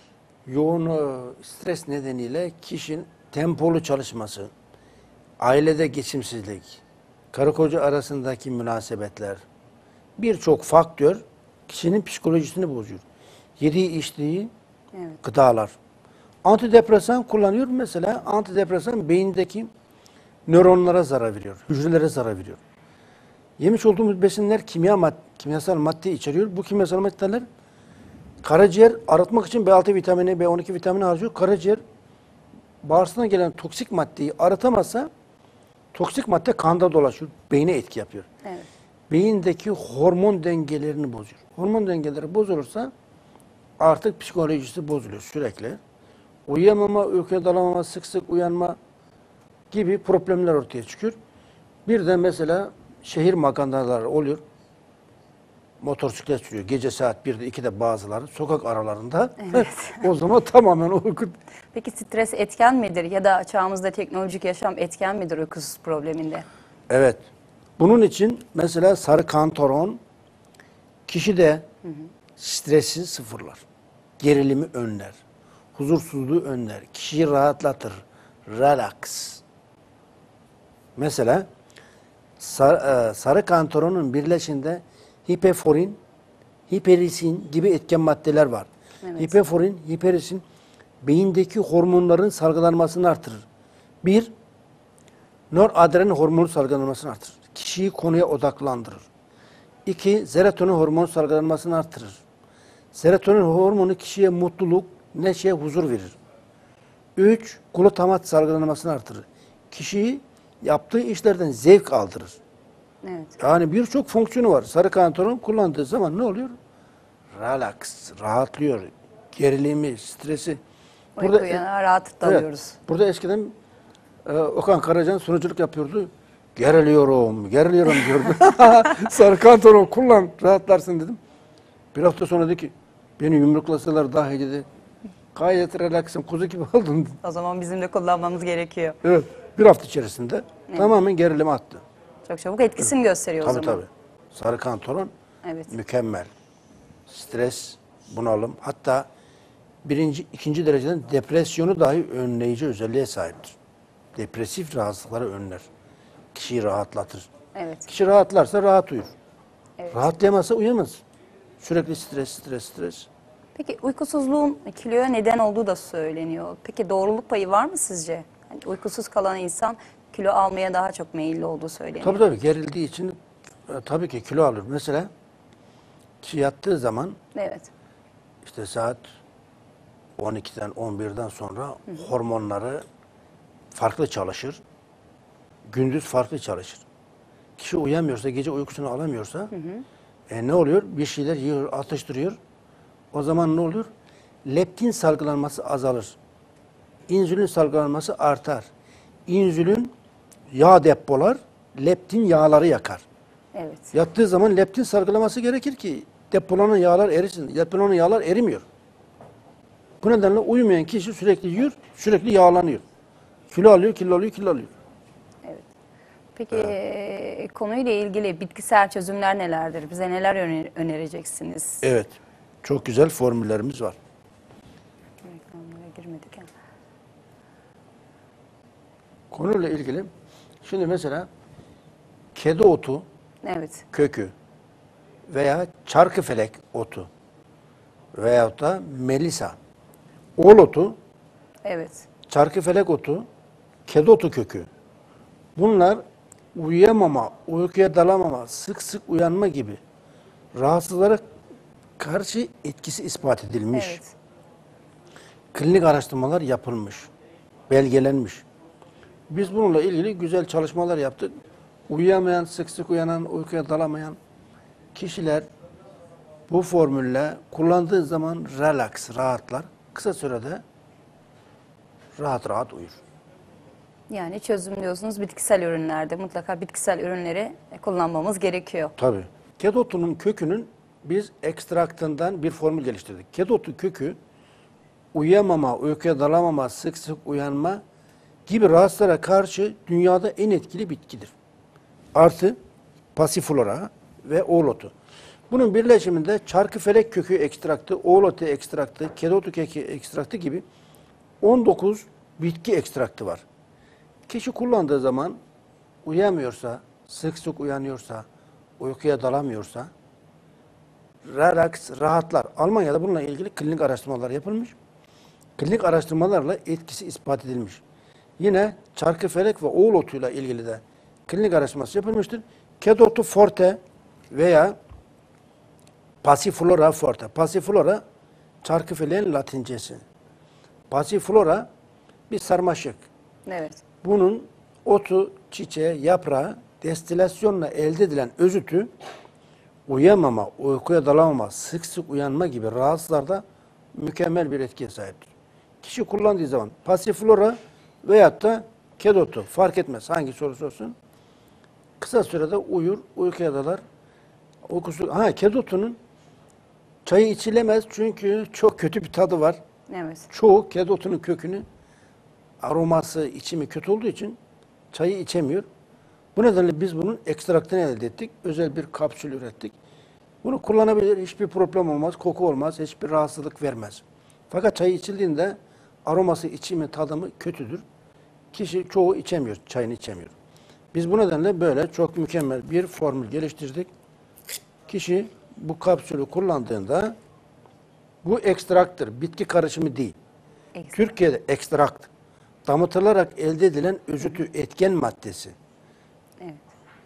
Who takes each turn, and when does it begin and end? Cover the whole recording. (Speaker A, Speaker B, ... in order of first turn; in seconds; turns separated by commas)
Speaker A: 0.5-4.5, Speaker A: 5.4-9.4, Speaker A: 10.2-13.0, Speaker A: 13.6-14.5, Speaker B: 14.9-15.2, Speaker A: 15.2-15.8, Speaker A: 16.4-19.7, Speaker A: 20.5-22.6, Speaker A: 23.6-27.4, Speaker A: 28.4-31.8, Speaker A: 32.8-35.1, Speaker A: 35.9-38.3, Speaker A: 39.1-42.9, Speaker A: 43.8-45.8, Speaker A: 46.5-48.8, Speaker A: 49.7-51.1, Speaker A: 51.9-54.4, Speaker A: 55.8-61.4, Speaker B: 59.4-60.0, Speaker B: 61.7-66.5, Speaker A: 66.9-67.2, Speaker A: 67.8-70.0, Speaker A: 71.1-71.7, Speaker A: 72.4-73.6, Speaker A: 74.2-75.2, Speaker A: 75.8-79.4, Speaker A: 81.0-81.5, Speaker A: 82.4-86.0, Speaker A: 86.7-90.4, Speaker B: 89.0-89.4, Speaker A: 91.0-93.4, Speaker A: 94.0-94.3, Speaker A: 95.5-99.1, Speaker A: 99.8-102.2, Speaker A: 102.9-106.2, Speaker A: 107.2-112.4, Speaker B: 113.0-113.4, Speaker A: 113.4-116.5, Speaker A: 117.3-120.6, Speaker B: 121.2-122.8, Speaker A: 121.2-121.6, Speaker A: 122.2-123.5, Speaker A: 124.3-131.2, Speaker A: 131.9-134.7, Speaker A: 135.3-137.2, Speaker B: 137.2-139.0, Speaker A: 139.0-141.8, Speaker B: 140.7-140.9, Speaker B: 142.3-143.8, Speaker A: 143.4-145.1, Speaker B: 145.4-145.7, Speaker A: 145.7-146.3, Speaker A: 147.1-149.1, Speaker A: 149.8-153.6, Speaker A: 154.2-155.7, Speaker A: 156.3-157.3, Speaker B: 157.5-157.9, Speaker A: 157.9-159.1, Speaker A: 159.9-161.0, Speaker A: 161.6-163.1, Speaker B: 163.5-172.2, Speaker A: 172.0-173.2, Speaker A: 173.7-175.1, Speaker A: 176.2-177.2, Speaker B: 177.3-177.7, Speaker A: 178.4-179.0, Speaker A: 180.2-182.8, Speaker A: 183.7-184.6, Speaker A: 185.7-186.8, Speaker A: 187.6-189.5, Speaker B: 189.5-189.8, Speaker A: 190.3-192.4, Speaker A: 193.1-193.9, Speaker A: 194.4-196.2, Speaker A: 197.1-198.7, Speaker A: 199.3-199.9, Speaker A: 200.5-203.0, Speaker B: 203.5-203.9, Speaker A: 203.9-208.6, Speaker A: 210.0-212.8, Speaker A: 213.5-214.7, Speaker B: 216.3-221.8, Speaker A: 221.8-223.9, Speaker B: 225.2-226.5, Speaker A: 229.3-230.1, Speaker A: 230.6-231.3, Speaker A: 232.3-233.0, Speaker B: 233.4-233.8, Speaker A: 233.9-234.3, Speaker A: 235.3-237.1, Speaker A: 238.1-239.6, Speaker A: 240.4-240.9, Speaker B: 241.6-242.1, Speaker A: 242.3-243.3, Speaker A: 243.9-244.7, Speaker A: 245.6-246.0, Speaker A: 246.5-249.8, Speaker A: 250.5-251.2, Speaker A: 252.0-254.0, Speaker B: 253.7-254.1, Speaker A: 255.5-257.1, Speaker A: 257.7-258.4, Speaker A: 259.3-261.4, Speaker A: 261.9-264.2, Speaker A: 264.9-265.4, Speaker A: 266.5-270.6, Speaker A: 272.1-273.0, Speaker B: 274.1-278.9, Speaker A: 279.0-284.2, Speaker A: 285.1-287.8, Speaker A: 288.5-291.3, Speaker A: 292.1-292.6, Speaker A: 293.1-294.9, Speaker A: 295.5-300.6, Speaker A: 301.4-303.4, Speaker A: 304.3-305.4, Speaker A: 306.0-308.2, Speaker A: 308.8-309.9, Speaker A: 311.2-314.8, Speaker A: 315.6-317.8, Speaker A: 318.4-323.8, Speaker A: 324.3-324.8, Speaker A: 326.2-328.0, Speaker A: 328.6-330.0, Speaker A: 330.9-331.7, Speaker A: 332.3-333.0, Speaker B: 333.5-333.8, Speaker A: 334.0-338.9, Speaker A: 339.9-343.4, Speaker A: 343.9-345.3, Speaker A: 345.8-350.9, Speaker A: 352.0-353.8, Speaker A: 354.6-356.0, Speaker A: 357.0-359.6, Speaker B: 359.9-360.3, Speaker A: 360.3-361.6, Speaker A: 362.6-364.4, Speaker A: 364.9-365.6, Speaker A: 366.4-369.7, Speaker A: 370.4-377.8, Speaker A: 378.5-380.3, Speaker A: 380.9-383.9, Speaker A: 384.9-387.1, Speaker A: 388.2-390.1, Speaker B: 390.8-391.0, Speaker A: 390.9-392.1, Speaker A: 392.6-395.5